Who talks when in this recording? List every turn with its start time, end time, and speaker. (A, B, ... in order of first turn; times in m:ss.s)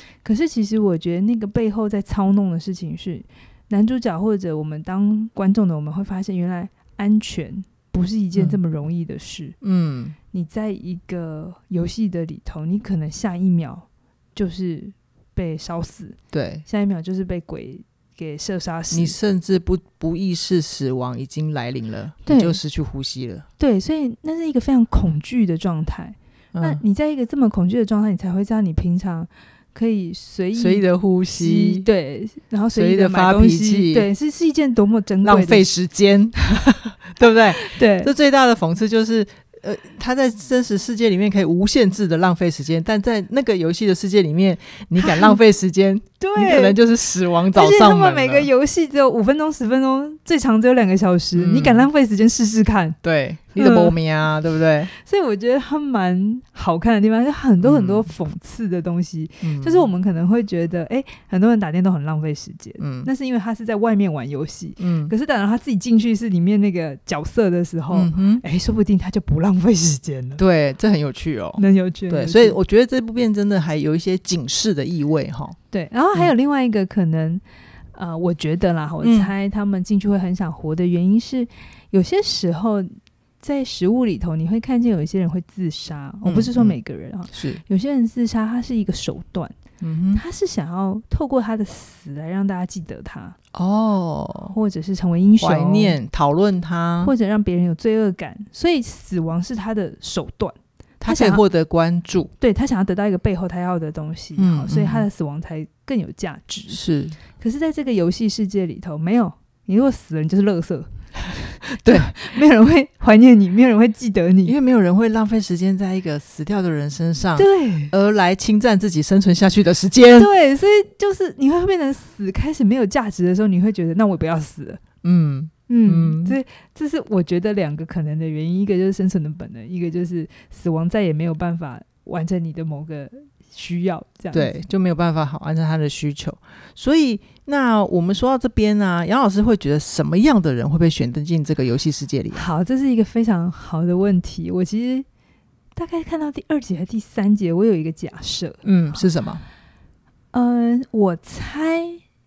0:00.2-0:09.6 A
0:09.6-0:10.2 B
0:10.3-0:19.2 A
0:16.3-0:16.6 B
0:18.9-0:23.5 B
0:22.3-0:22.6 A
0:23.6-0:35.7 A
0:26.5-0:26.8 B
0:30.6-0:31.9 B
0:32.8-0:34.1 B
0:35.2-0:48.5 B
0:37.2-0:38.1 A
0:45.0-0:45.4 A
0:46.2-0:46.8 A
0:47.5-0:53.0 A
0:51.4-0:51.9 B
0:53.0-0:54.9 B
0:53.6-0:54.0 A
0:54.9-1:10.4 A
0:57.6-0:58.1 B
0:59.4-0:59.9 B
1:02.8-1:03.1 B
1:04.8-1:05.1 B
1:07.9-1:08.4 B
1:10.4-1:15.6 B
1:11.6-1:12.6 A
1:15.7-1:17.4 A
1:17.9-1:29.6 A
1:19.0-1:19.3 B
1:26.2-1:26.8 B
1:27.3-1:27.6 B
1:29.8-1:30.2 B
1:30.1-1:33.4 A
1:33.5-1:34.6 B
1:34.5-1:36.0 A
1:35.4-1:37.1 B
1:37.0-1:41.4 A
1:41.0-1:42.3 B
1:42.4-1:46.8 A
1:44.4-1:45.1 B
1:46.7-1:47.2 B
1:47.3-1:54.6 A
1:51.7-1:52.2 B
1:54.4-2:00.3 B
1:57.4-1:57.9 A
2:00.2-2:04.8 A
2:05.0-2:06.4 B
2:05.7-2:14.6 A
2:14.3-2:22.5 B
2:22.3-2:25.1 A
2:25.8-2:28.6 A
2:28.6-2:29.4 B
2:30.3-2:32.0 A